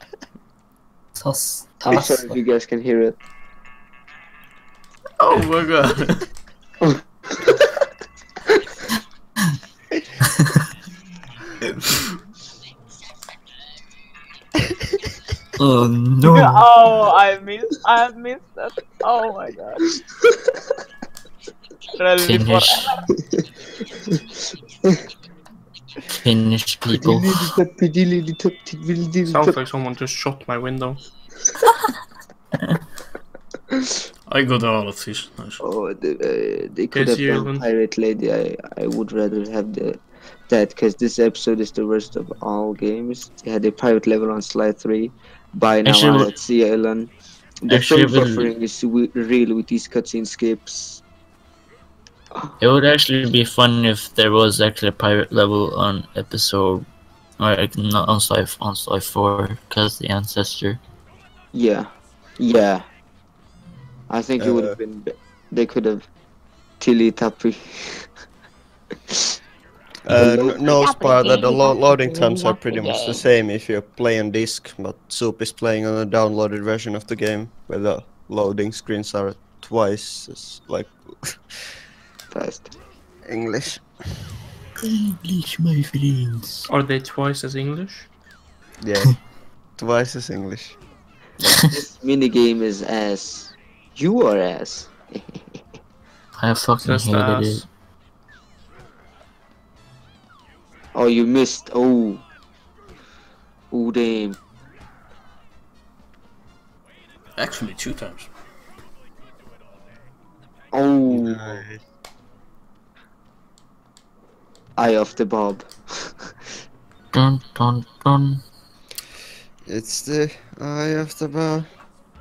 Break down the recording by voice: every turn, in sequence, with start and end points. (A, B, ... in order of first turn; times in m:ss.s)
0:01.2-0:02.3 A
0:01.8-0:03.2 B
0:05.2-0:06.3 C
0:06.8-0:07.7 B
0:15.6-0:16.6 A
0:16.3-0:19.8 D
0:22.0-0:23.1 D
0:22.2-0:22.9 A
0:26.2-0:27.5 A
0:26.9-0:29.6 B
0:29.3-0:31.0 E
0:34.3-0:35.6 C
0:35.6-0:51.0 B
0:36.9-0:37.7 E
0:45.8-0:46.3 A
0:47.7-0:48.5 A
0:52.6-0:56.9 A
0:57.4-1:00.8 A
1:01.5-1:02.9 B
1:04.1-1:06.1 B
1:04.4-1:04.8 F
1:06.8-1:08.1 B
1:10.0-1:21.6 F
1:10.1-1:10.6 B
1:10.6-1:13.2 D
1:22.3-1:22.7 B
1:23.2-1:23.9 F
1:24.9-1:26.7 A
1:26.7-1:28.1 E
1:28.8-1:30.8 F
1:31.6-1:35.4 B
1:36.4-1:37.7 A
1:36.8-1:37.7 E
1:40.9-1:42.2 B
1:43.7-1:44.4 B
1:47.4-1:48.3 C
1:50.7-1:51.6 B
1:51.1-1:51.8 F
1:54.8-1:56.1 B
1:57.1-1:58.4 A
1:59.7-2:01.7 F